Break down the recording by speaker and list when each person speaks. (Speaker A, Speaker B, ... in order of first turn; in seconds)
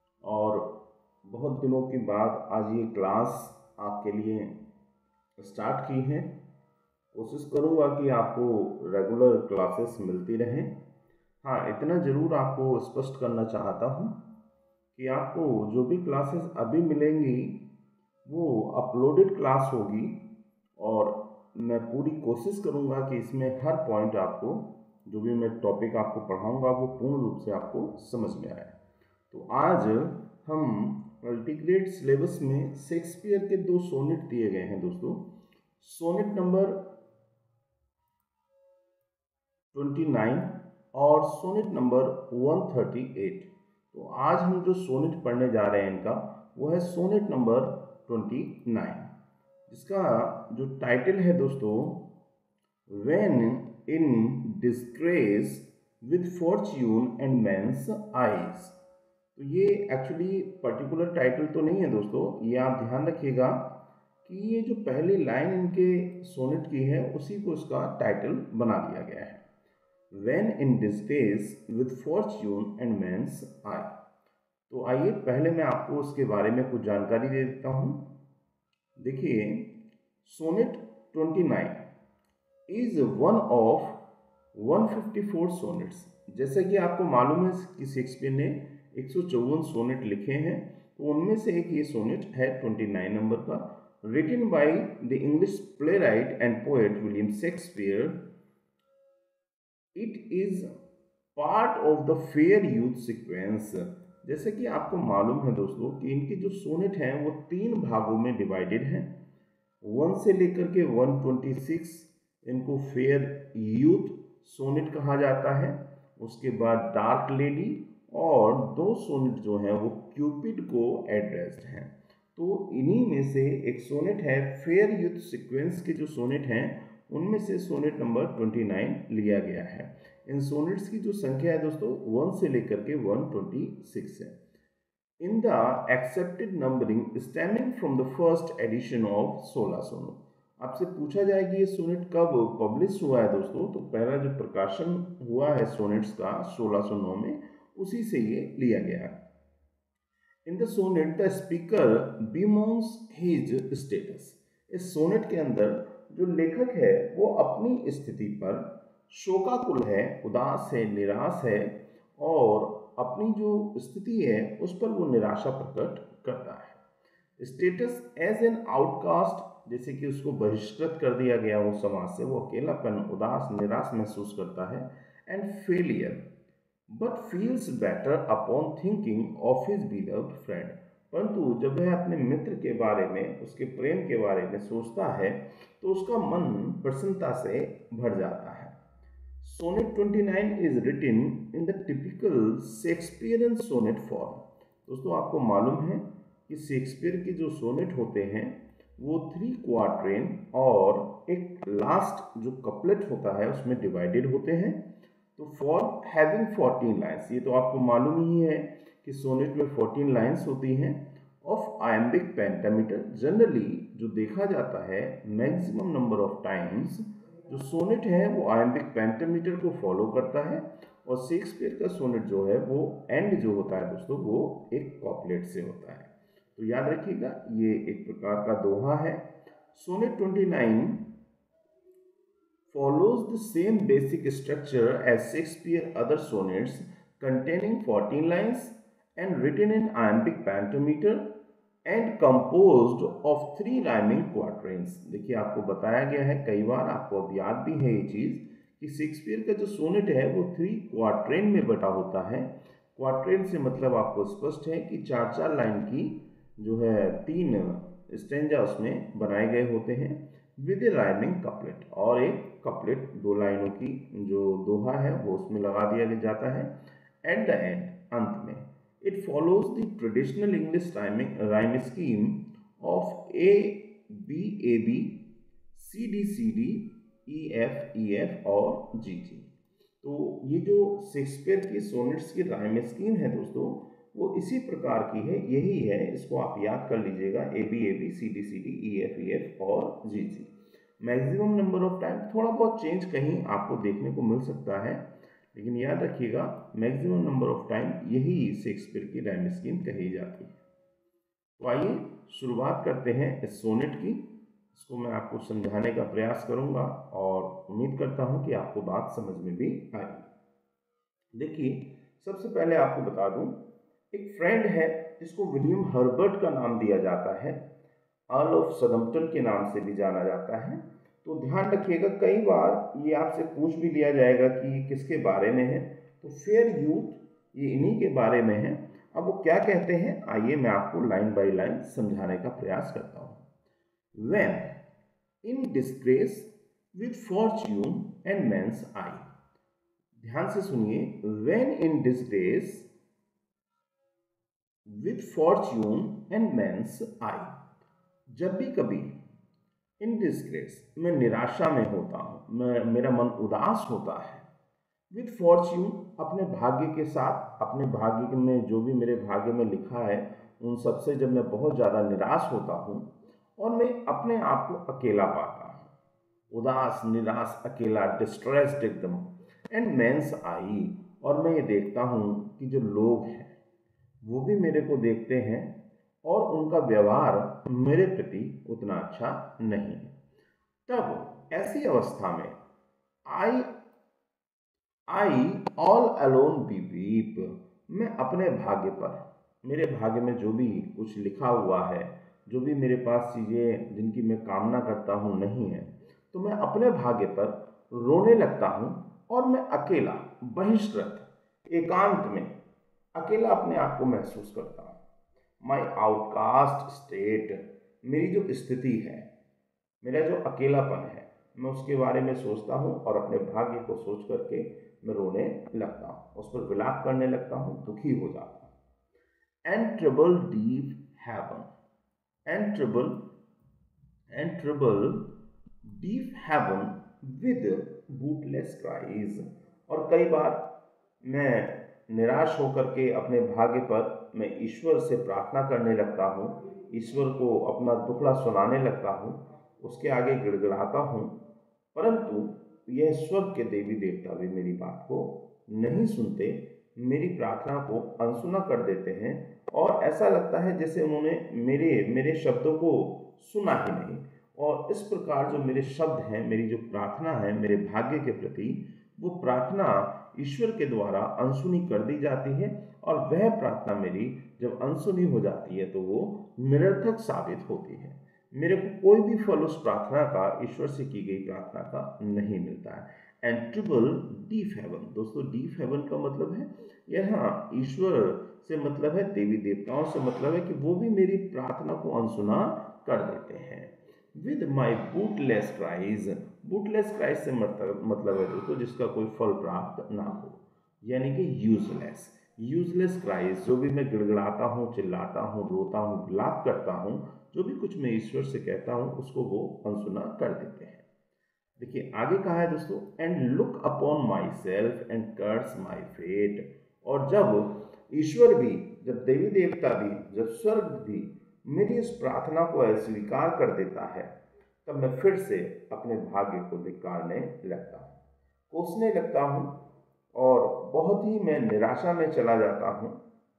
Speaker A: 0.2-4.6, 5.4-6.4, 7.1-10.8, 11.4-14.2, 14.9-17.6, 18.3-20.2, 20.8-28.8, 29.3-36.9, 39.7-49.1, 49.7-52.1, 52.9-58.8, 59.4-63.7, 64.2-69.4, 70.1-74.0, 74.7-78.0, 79.0-79.7, 80.2-81.9, 82.7-84.0, 84.5-98.2, 100.0-100.7, 101.4-109.1, 109.8-134.4, 135.2-149.2, 150.5-166.8, 167.4-176.3, 176.9-188.8, 189.4-204.8, 205.4-231.1, 232.7-241.3, 241.9-266.7, 267.2-275.2, 275.7-279.5, 280.0-300.6, 301.6-310.3, 311.4-317.6, 318.3-333.4, 334.2-334.8, 335.4-339.3, 340.2-342.9, 344.9-347.6, 348.3-349.2, 350.0-354.5, 355.1-365.9, 366.5-373.6, 374.2-380.2, 380.9-382.6, 383.3-383.7, 385.1-402.6, 403.1-405.0, 405.6-409.3, 410.0-418.7, 419.7-421.7, 422.5-423.3, 424.3-425.3, 425.8-441.4, 441.9-501.1, 501.8-514.3, 514.9-518.1, 518.7-519.8, 520.3-523.2